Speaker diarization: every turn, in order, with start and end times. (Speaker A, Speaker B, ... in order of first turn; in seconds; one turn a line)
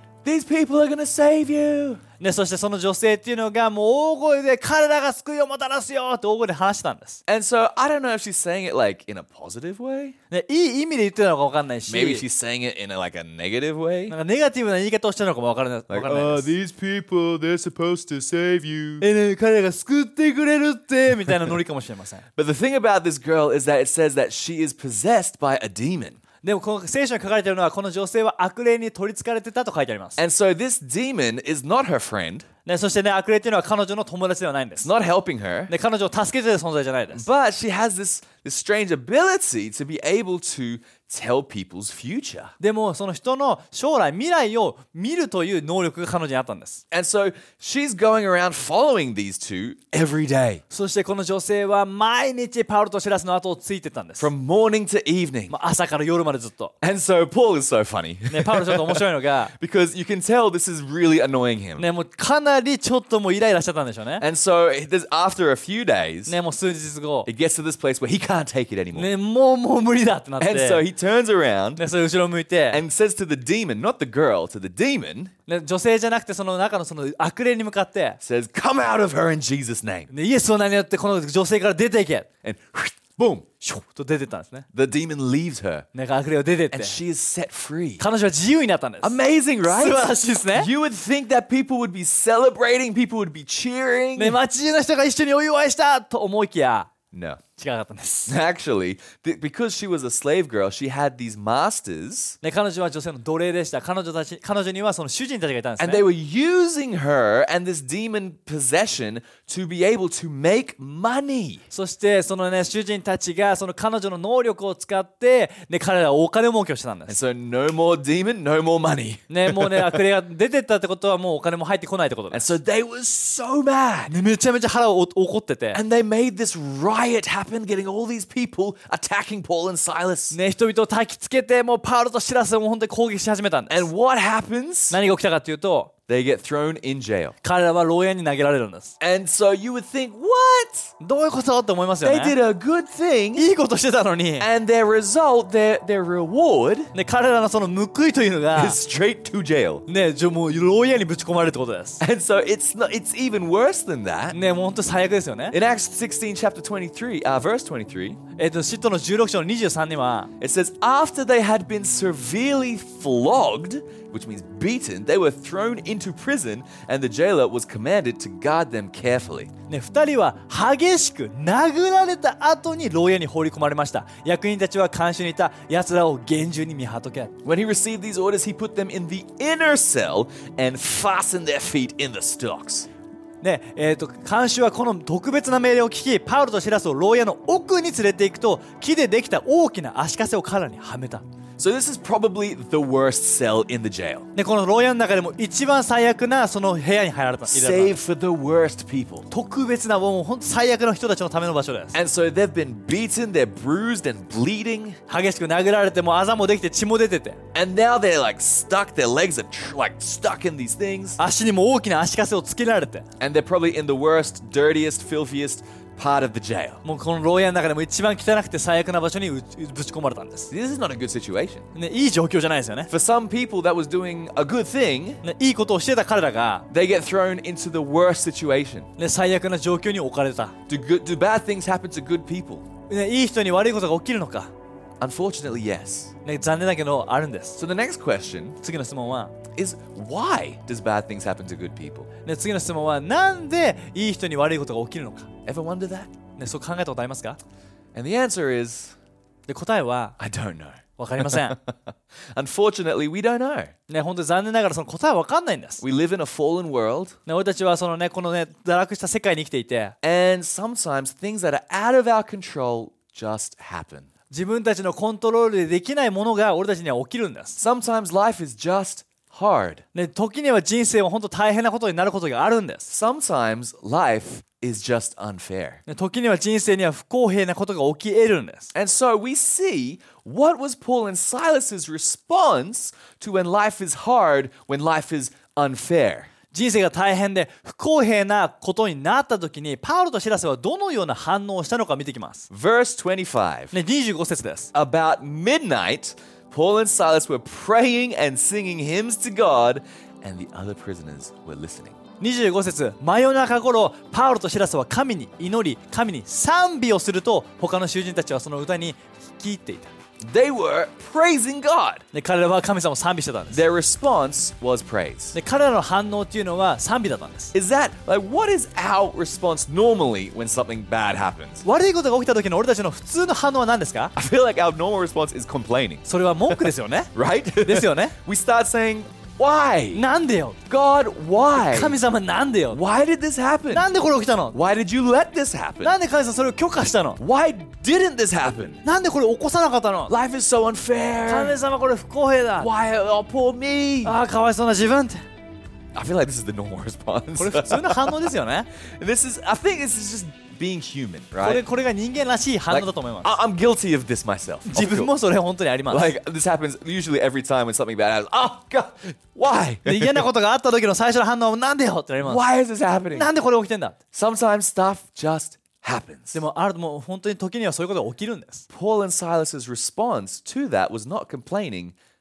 Speaker A: 0.2-2.0
Speaker B: 2.2-7.2
Speaker A: 7.3-10.2
Speaker B: 10.3-12.2
Speaker A: 11.9-14.1
Speaker B: 14.1-16.5
Speaker A: 15.9-19.0
Speaker B: 19.0-22.2
Speaker A: 22.4-26.2
Speaker B: 26.4-30.2
Speaker A: 30.2-32.5
Speaker B: 32.6-34.9
Speaker A: 34.8-35.7
Speaker B: 35.7-37.3
Speaker A: 37.1-42.5
Speaker B: 42.6-46.8
Speaker A: 46.9-50.6
Speaker B: 50.7-54.3
Speaker A: 54.2-55.5
Speaker B: 55.5-56.7
Speaker A: 56.8-59.0
Speaker B: 58.3-59.5
Speaker A: 59.5-61.9
Speaker B: 61.8-64.2
Speaker A: 64.2-66.4
Speaker B: 66.3-67.3
Speaker A: 67.2-69.1
Speaker B: 68.9-70.8
Speaker A: 70.4-71.8
Speaker B: 71.8-72.8
Speaker A: 72.7-75.3
Speaker B: 75.5-78.2
Speaker A: 78.2-80.1
Speaker B: 80.1-82.3
Speaker A: 82.4-83.5
Speaker B: 83.6-84.7
Speaker A: 84.7-85.9
Speaker B: 85.9-87.0
Speaker A: 86.7-88.0
Speaker B: 88.0-90.7
Speaker A: 89.0-94.4
Speaker B: 94.2-96.9
Speaker A: 97.1-97.4
Speaker B: 97.6-98.3
Speaker A: 98.3-102.4
Speaker B: 102.4-106.1
Speaker A: 105.8-111.6
Speaker B: 111.7-117.2
Speaker A: 117.1-120.0
Speaker B: 119.3-122.5
Speaker A: 122.3-124.2
Speaker B: 124.1-125.8
Speaker A: 125.7-130.4
Speaker B: 130.3-133.9
Speaker A: 133.7-135.0
Speaker B: 134.9-135.9
Speaker A: 136.1-137.3
Speaker B: 137.4-138.9
Speaker A: 139.0-140.9
Speaker B: 141.0-142.4
Speaker A: 142.0-143.5
Speaker B: 143.3-144.5
Speaker A: 144.4-146.9
Speaker B: 146.9-148.8
Speaker A: 148.5-149.8
Speaker B: 149.9-152.0
Speaker A: 152.0-154.4
Speaker B: 154.3-155.6
Speaker A: 155.5-158.2
Speaker B: 158.4-160.3
Speaker A: 160.4-169.5
Speaker B: 169.7-177.3
Speaker A: 177.4-182.9
Speaker B: 183.4-191.2
Speaker A: 191.6-194.3
Speaker B: 194.3-198.0
Speaker A: 197.5-199.3
Speaker B: 199.3-202.0
Speaker A: 201.9-205.0
Speaker B: 205.1-207.4
Speaker A: 207.5-211.2
Speaker B: 211.2-213.1
Speaker A: 213.2-216.8
Speaker B: 216.8-220.5
Speaker A: 220.5-221.7
Speaker B: 221.7-222.9
Speaker A: 222.9-225.2
Speaker B: 225.2-226.7
Speaker A: 226.7-228.9
Speaker B: 229.0-230.5
Speaker A: 230.7-232.7
Speaker B: 232.9-234.5
Speaker A: 235.0-236.1
Speaker B: 236.2-237.6
Speaker A: 237.6-238.6
Speaker B: 238.6-239.3
Speaker A: 239.5-242.1
Speaker B: 242.2-245.3
Speaker A: 245.4-246.1
Speaker B: 246.4-247.4
Speaker A: 247.9-248.9
Speaker B: 249.5-250.2
Speaker A: 250.2-253.7
Speaker B: 251.0-251.6
Speaker B: 253.9-255.8
Speaker A: 255.8-257.2
Speaker B: 257.3-259.9
Speaker A: 260.0-264.1
Speaker B: 264.3-267.6
Speaker A: 267.6-269.8
Speaker B: 269.9-272.9
Speaker A: 272.9-275.8
Speaker B: 275.9-278.7
Speaker A: 278.7-286.3
Speaker B: 286.5-292.5
Speaker A: 292.5-293.7
Speaker B: 293.7-294.7
Speaker A: 294.7-302.0
Speaker B: 302.2-309.9
Speaker A: 310.2-312.0
Speaker B: 312.1-313.6
Speaker A: 313.5-315.4
Speaker B: 315.3-317.5
Speaker A: 317.5-321.6
Speaker B: 321.6-324.1
Speaker A: 324.1-330.0
Speaker B: 326.1-328.1
Speaker B: 329.9-330.6
Speaker A: 330.7-332.0
Speaker B: 331.6-332.8
Speaker A: 332.7-333.9
Speaker B: 333.7-334.6
Speaker A: 334.5-335.9
Speaker B: 335.8-337.2
Speaker A: 337.2-338.8
Speaker B: 338.8-340.1
Speaker A: 340.1-341.6
Speaker B: 341.3-342.7
Speaker A: 342.6-344.2
Speaker B: 344.0-345.2
Speaker A: 345.9-348.3
Speaker B: 347.4-348.7
Speaker A: 349.0-351.6
Speaker B: 351.4-353.4
Speaker A: 352.7-355.1
Speaker B: 354.7-356.1
Speaker A: 355.9-360.3
Speaker B: 359.8-362.4
Speaker A: 362.2-363.3
Speaker B: 363.1-364.0
Speaker A: 364.1-366.4
Speaker B: 366.3-368.6
Speaker A: 368.7-371.9